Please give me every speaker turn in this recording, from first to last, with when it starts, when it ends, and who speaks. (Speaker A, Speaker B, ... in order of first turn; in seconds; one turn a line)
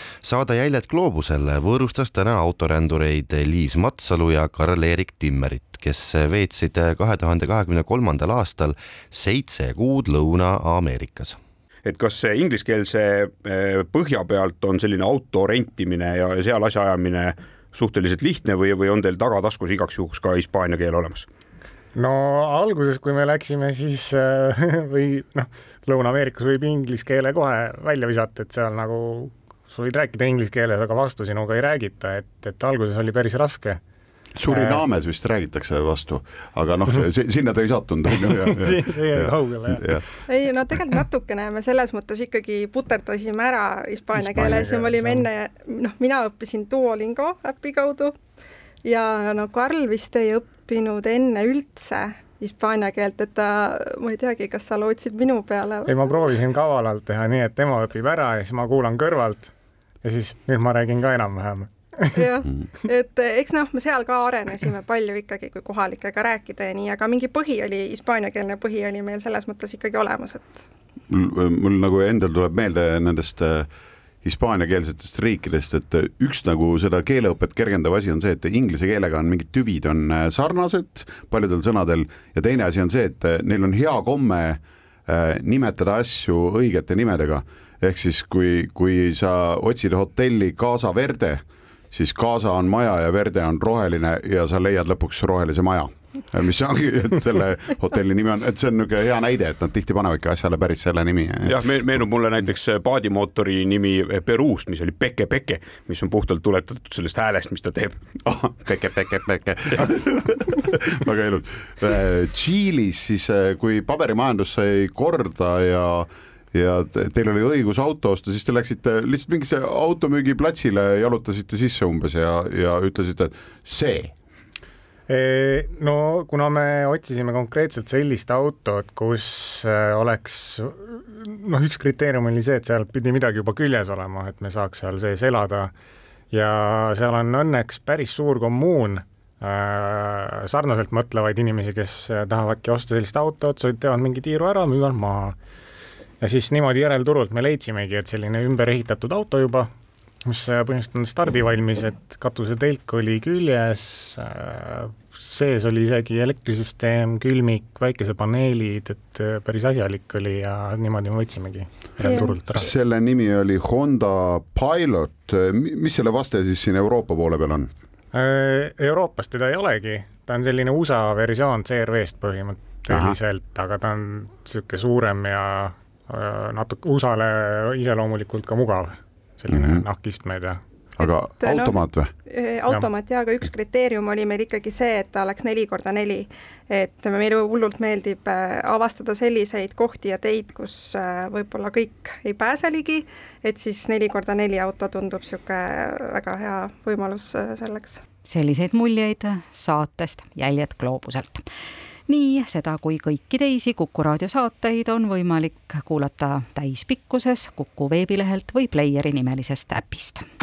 Speaker A: 0.2-11.4
Speaker B: 11.8-21.3
Speaker C: 21.9-33.8
Speaker D: 34.4-40.0
Speaker C: 34.5-34.8
Speaker C: 38.4-40.0
Speaker E: 40.3-48.2
Speaker D: 44.3-44.7
Speaker C: 44.4-45.3
Speaker E: 48.8-56.3
Speaker C: 55.8-59.5
Speaker C: 60.0-62.1
Speaker E: 62.1-70.6
Speaker D: 71.1-73.7
Speaker D: 74.2-101.8
Speaker B: 101.4-108.0
Speaker D: 108.2-124.1
Speaker C: 125.1-135.7
Speaker C: 136.3-145.3
Speaker C: 146.2-149.7
Speaker C: 150.2-162.7
Speaker E: 162.0-162.4
Speaker D: 162.5-167.7
Speaker C: 168.1-180.6
Speaker D: 172.9-173.2
Speaker D: 179.5-179.8
Speaker E: 181.0-198.0
Speaker D: 181.0-182.1
Speaker F: 198.2-201.5
Speaker F: 202.1-210.2